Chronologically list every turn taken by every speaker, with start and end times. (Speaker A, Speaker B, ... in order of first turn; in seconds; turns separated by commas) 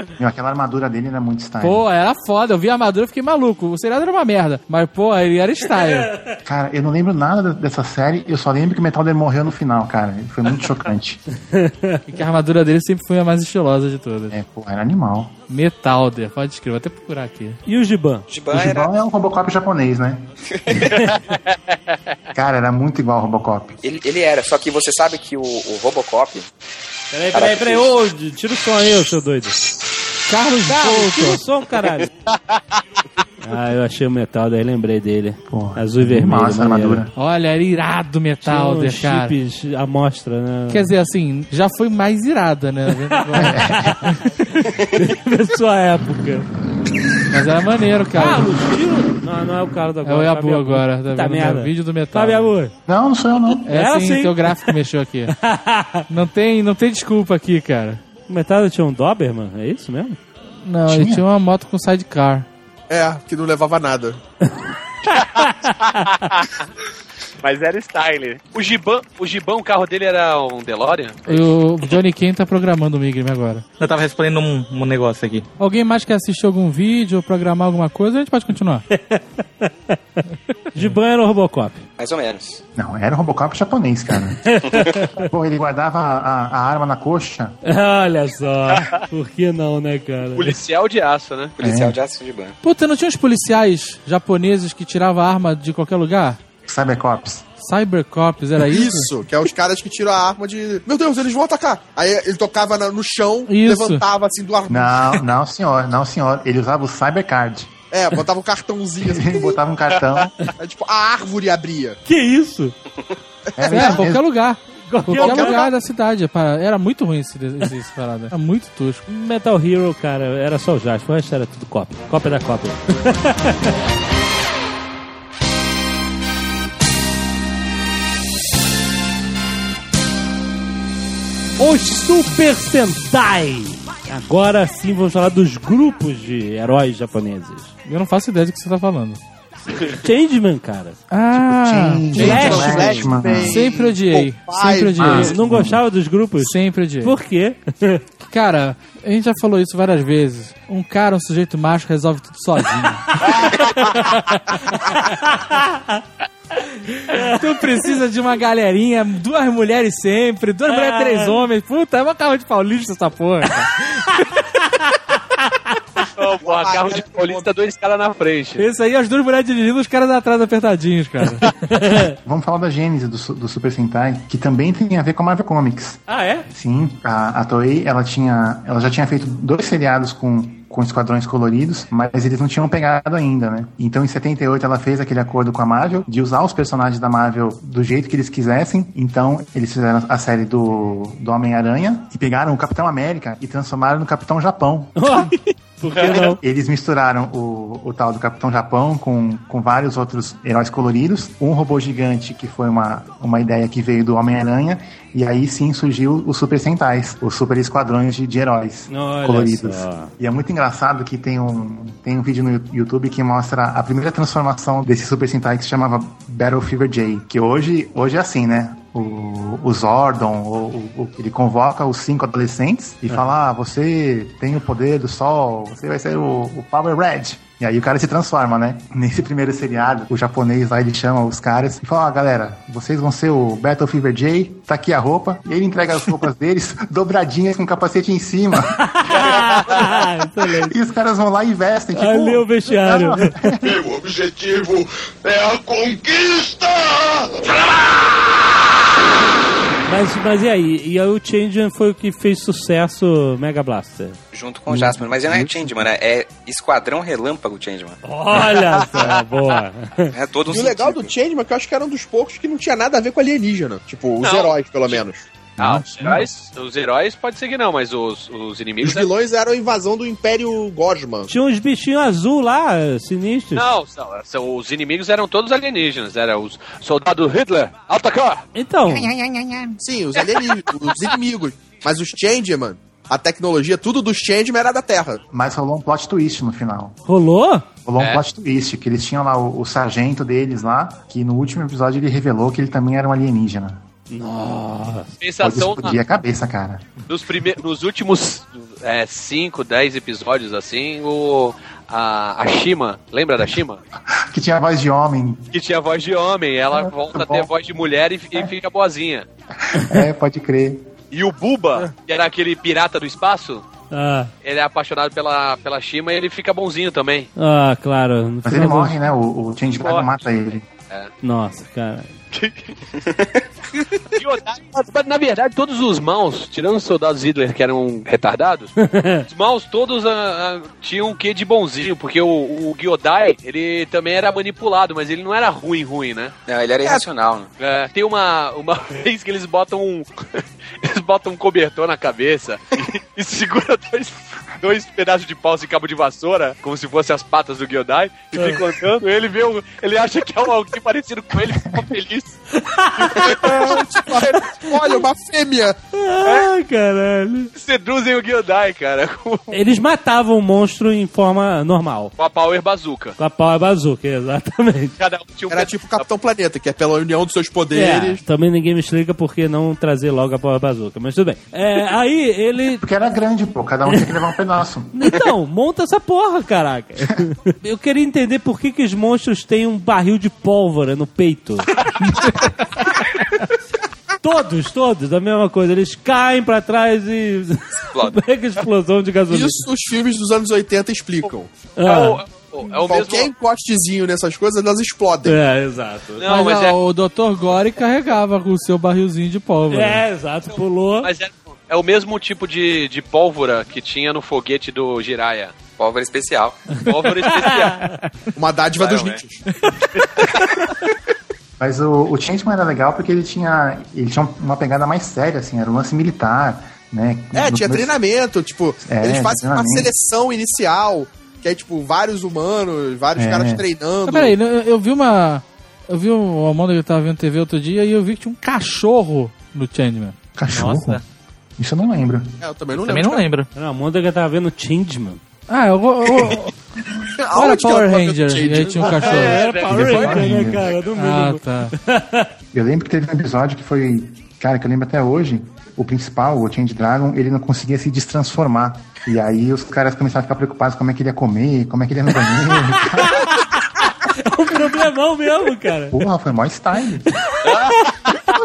Speaker A: 0.2-1.8, Speaker B: 1.6-6.1, Speaker A: 6.4-11.2, Speaker C: 11.5-12.0, Speaker B: 12.1-14.3, Speaker A: 14.3-15.3, Speaker B: 15.5-17.6, Speaker C: 17.6-18.2, Speaker D: 18.3-18.9, Speaker A: 18.5-20.2, Speaker D: 20.5-20.9, Speaker E: 21.2-21.6, Speaker A: 22.3-23.8, Speaker D: 23.8-26.5, Speaker C: 27.1-29.6, Speaker D: 27.3-27.9, Speaker B: 30.3-31.4, Speaker C: 30.7-32.1, Speaker C: 33.4-37.0, Speaker A: 35.5-37.1, Speaker B: 37.1-39.3, Speaker C: 38.4-40.9, Speaker B: 40.7-44.2, Speaker C: 43.1-46.5, Speaker A: 43.4-44.0, Speaker B: 47.3-48.6, Speaker C: 48.1-52.7, Speaker B: 50.0-52.5, Speaker A: 52.9-53.6, Speaker B: 53.7-55.3, Speaker C: 53.7-54.7, Speaker C: 55.3-56.0, Speaker B: 56.1-58.0, Speaker C: 58.3-60.2, Speaker B: 60.6-62.5, Speaker A: 60.9-61.2, Speaker F: 62.9-64.2, Speaker E: 65.1-66.5, Speaker E: 67.4-71.5, Speaker B: 71.2-73.6, Speaker G: 73.8-75.5, Speaker B: 75.6-78.8, Speaker C: 78.9-80.2, Speaker C: 80.7-81.8, Speaker D: 82.0-82.6, Speaker A: 82.7-87.5, Speaker C: 84.5-85.2, Speaker C: 87.6-90.6, Speaker E: 90.3-91.6, Speaker D: 91.6-92.5, Speaker A: 91.6-92.0, Speaker B: 92.6-96.4, Speaker A: 96.6-97.4, Speaker B: 97.6-99.1, Speaker F: 98.6-105.1, Speaker B: 103.5-104.0, Speaker A: 104.7-107.7, Speaker F: 107.9-109.5, Speaker A: 109.0-110.3, Speaker F: 110.6-112.0, Speaker C: 112.0-112.7, Speaker F: 113.5-114.0, Speaker A: 113.6-114.2, Speaker B: 113.7-119.0, Speaker C: 114.8-115.7, Speaker F: 115.1-115.7, Speaker C: 119.1-123.7, Speaker C: 131.6-137.7, Speaker B: 137.8-139.2, Speaker C: 139.8-141.0, Speaker B: 141.1-142.8, Speaker A: 141.3-143.6, Speaker F: 142.1-145.1, Speaker C: 142.2-143.1, Speaker B: 143.4-145.3, Speaker A: 145.0-145.8, Speaker C: 145.1-148.0, Speaker B: 146.4-147.2, Speaker B: 148.2-154.2, Speaker C: 154.5-156.0, Speaker C: 157.1-157.4, Speaker B: 157.1-164.1, Speaker C: 160.7-161.4, Speaker E: 166.2-168.6, Speaker F: 166.4-167.5, Speaker B: 168.6-171.6, Speaker C: 171.6-172.1, Speaker A: 172.2-195.2, Speaker C: 176.1-176.5, Speaker C: 194.9-196.4, Speaker E: 195.9-196.3, Speaker A: 196.2-238.8, Speaker C: 208.9-210.1, Speaker C: 238.9-240.8, Speaker E: 239.1-239.9, Speaker A: 240.7-243.7, Speaker C: 241.9-243.3, Speaker H: 243.6-248.1, Speaker C: 249.9-254.2, Speaker D: 254.3-258.0, Speaker A: 254.7-255.9, Speaker C: 258.0-260.1, Speaker E: 258.7-259.2, Speaker D: 260.1-261.1, Speaker F: 260.5-265.3, Speaker E: 264.2-265.0, Speaker A: 265.6-266.3, Speaker E: 265.6-269.1, Speaker F: 268.8-271.3, Speaker C: 271.3-273.7, Speaker E: 273.5-278.4, Speaker C: 278.5-279.1, Speaker F: 279.8-285.2, Speaker E: 280.4-281.0, Speaker A: 285.3-287.0, Speaker C: 287.1-287.6, Speaker A: 287.9-293.8, Speaker E: 288.0-288.2, Speaker C: 294.1-295.1, Speaker E: 295.2-296.0, Speaker A: 295.4-297.0, Speaker E: 297.1-303.8, Speaker A: 304.1-305.5, Speaker E: 305.5-309.3, Speaker A: 306.7-307.5, Speaker A: 309.6-310.9, Speaker C: 309.7-310.0, Speaker E: 311.1-313.6, Speaker C: 313.9-314.3, Speaker E: 314.4-317.3, Speaker C: 317.4-319.0, Speaker A: 318.4-320.6, Speaker E: 319.8-321.1, Speaker C: 321.2-322.1, Speaker E: 322.3-322.7, Speaker E: 324.1-328.7, Speaker C: 328.8-329.2, Speaker E: 329.3-336.3, Speaker D: 336.5-337.5, Speaker E: 337.6-352.4, Speaker C: 348.3-348.6, Speaker C: 352.5-353.8, Speaker E: 353.0-354.2, Speaker F: 353.2-355.8, Speaker C: 355.9-357.5, Speaker E: 357.5-359.5, Speaker C: 359.5-362.1, Speaker E: 362.2-363.1, Speaker C: 363.2-364.9, Speaker E: 365.0-366.1, Speaker F: 365.5-368.2, Speaker C: 367.7-372.8, Speaker A: 372.8-375.1, Speaker C: 374.9-381.7, Speaker B: 382.0-382.4, Speaker C: 384.2-389.6, Speaker D: 387.8-388.2, Speaker F: 389.3-391.5, Speaker C: 391.8-392.2, Speaker E: 391.8-393.3, Speaker F: 392.7-395.4, Speaker C: 395.2-396.2, Speaker E: 396.2-396.8, Speaker B: 396.2-400.0, Speaker C: 399.7-401.1, Speaker E: 400.5-405.6, Speaker D: 405.8-406.8, Speaker E: 406.8-407.8, Speaker C: 407.6-407.9, Speaker F: 408.4-409.4, Speaker E: 408.8-409.2, Speaker E: 410.1-410.5, Speaker A: 411.6-417.9, Speaker F: 417.3-424.3, Speaker A: 418.8-419.9, Speaker A: 423.1-423.6, Speaker B: 424.1-430.1, Speaker A: 430.4-431.0, Speaker G: 430.5-431.0, Speaker A: 431.6-432.3, Speaker F: 432.4-433.3, Speaker G: 432.7-433.5, Speaker C: 433.5-435.2, Speaker B: 435.5-436.5, Speaker F: 437.1-438.9, Speaker B: 437.3-439.5, Speaker C: 438.8-442.3, Speaker E: 438.8-440.9, Speaker A: 439.7-440.6, Speaker B: 440.9-441.7, Speaker A: 442.5-453.3, Speaker C: 453.0-456.0, Speaker A: 455.9-457.1